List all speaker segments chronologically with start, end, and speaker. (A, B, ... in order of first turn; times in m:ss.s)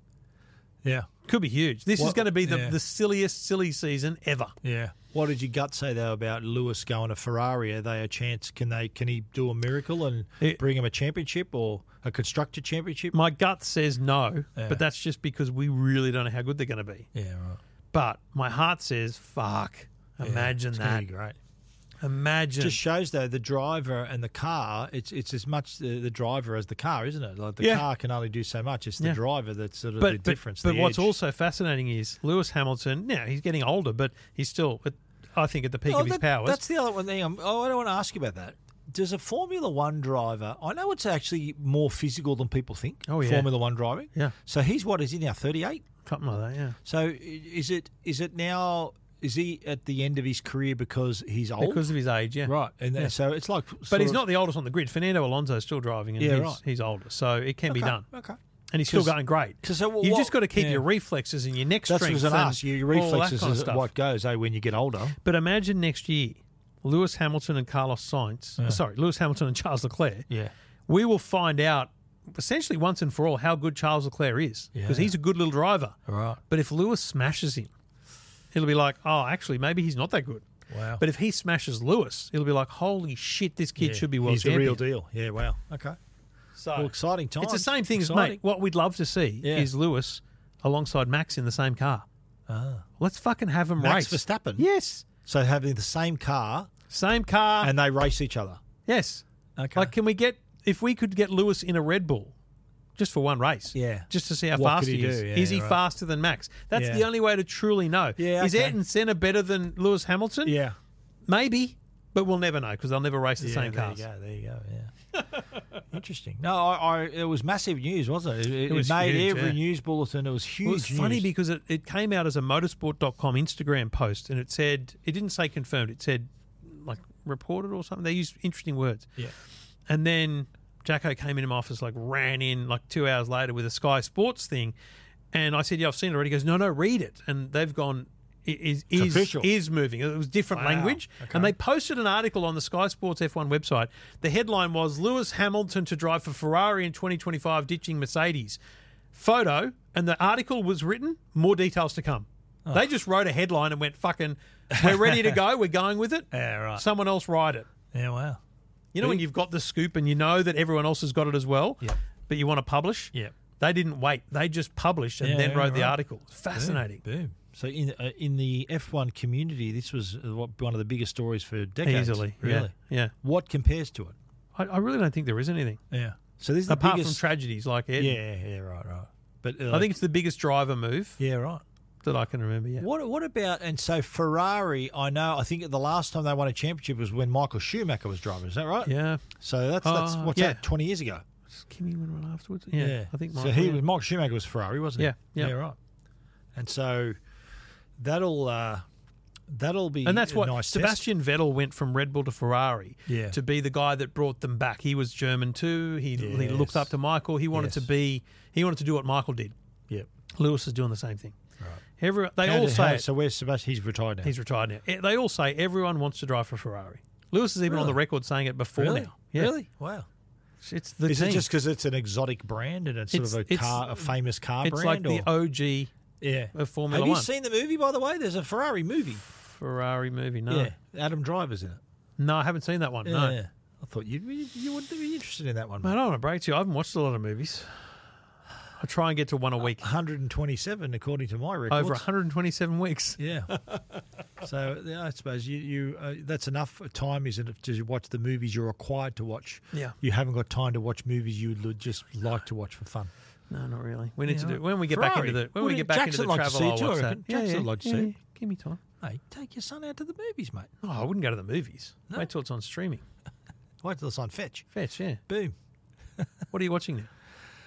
0:00.8-0:01.1 A
0:01.3-0:04.6 B
0:02.0-0:02.8 A
0:04.6-0:13.2 A
0:13.1-0:17.1 B
0:14.6-0:14.8 A
0:17.1-0:17.6 A
0:17.9-0:21.1 B
0:20.2-0:21.4 A
0:22.0-0:22.8 B
0:22.6-0:31.1 A
0:27.6-0:27.8 B
0:30.0-0:36.6 B
0:35.9-0:45.9 A
0:43.1-0:43.5 B
0:46.0-0:46.8 B
0:46.8-0:51.9 A
0:51.6-0:53.1 B
0:52.4-0:54.2 A
0:53.9-0:58.1 B
0:56.2-0:56.6 A
0:57.7-1:00.9 A
0:58.7-1:03.9 B
1:01.9-1:05.2 A
1:05.2-1:10.3 B
1:10.9-1:16.0 B
1:14.8-1:15.1 A
1:16.1-1:16.4 A
1:16.5-1:17.7 B
1:18.5-1:20.5 B
1:20.7-1:21.0 A
1:21.0-1:24.8 B
1:23.8-1:26.0 A
1:26.6-1:32.1 B
1:26.8-1:28.4 A
1:29.4-1:29.7 A
1:32.5-1:32.9 A
1:33.0-1:35.1 B
1:33.8-1:34.7 A
1:35.2-1:36.7 A
1:36.9-1:37.7 B
1:37.6-1:38.6 A
1:38.9-1:39.2 B
1:39.6-1:39.9 A
1:39.8-1:42.4 B
1:43.0-1:50.6 B
1:43.7-1:45.8 A
1:46.7-1:47.1 A
1:48.2-1:48.8 A
1:50.4-1:50.8 A
1:51.3-1:54.1 B
1:53.4-1:54.9 A
1:55.9-2:01.3 A
1:58.7-1:59.6 B
2:00.6-2:09.2 B
2:09.9-2:14.8 B
2:15.3-2:28.6 B
2:18.9-2:19.5 A
2:20.5-2:21.5 A
2:29.1-2:37.7 B
2:34.7-2:35.4 A
2:36.3-2:36.8 A
2:37.9-2:38.4 A
2:38.9-2:47.0 B
2:45.2-2:46.0 A
2:46.6-2:54.2 A
2:51.8-2:53.1 B
2:54.6-2:55.8 B
2:55.9-2:57.2 A
2:56.7-2:58.2 B
2:58.0-3:00.0 A
2:59.7-3:01.2 B
3:01.2-3:01.6 A
3:02.0-3:02.9 B
3:02.8-3:11.2 A
3:08.8-3:09.2 B
3:09.8-3:10.6 B
3:11.5-3:13.8 B
3:12.8-3:15.8 A
3:15.0-3:15.6 B
3:16.5-3:17.1 A
3:18.0-3:18.8 A
3:19.5-3:21.1 A
3:20.0-3:29.5 B
3:23.1-3:23.4 A
3:26.2-3:26.9 A
3:27.5-3:27.9 A
3:30.3-3:31.4 B
3:32.0-3:33.1 B
3:32.4-3:34.3 A
3:34.2-3:39.5 B
3:37.7-3:38.0 A
3:38.8-3:40.1 A
3:40.6-3:41.5 B
3:41.1-3:45.3 A
3:43.1-3:44.1 B
3:44.6-3:45.9 B
3:46.2-3:49.2 A
3:46.5-3:47.3 B
3:49.3-3:50.7 B
3:50.5-3:51.8 A
3:52.2-3:53.4 B
3:53.0-3:55.9 A
3:55.8-3:57.9 B
3:58.8-3:59.9 B
3:59.6-4:02.0 A
4:01.7-4:03.8 B
4:03.2-4:03.5 A
4:04.4-4:13.1 A
4:13.5-4:18.8 B
4:14.3-4:18.1 A
4:19.0-4:20.7 A
4:20.8-4:23.0 B
4:23.8-4:24.7 A
4:24.8-4:25.2 B
4:25.3-4:25.6 A
4:26.5-4:27.1 B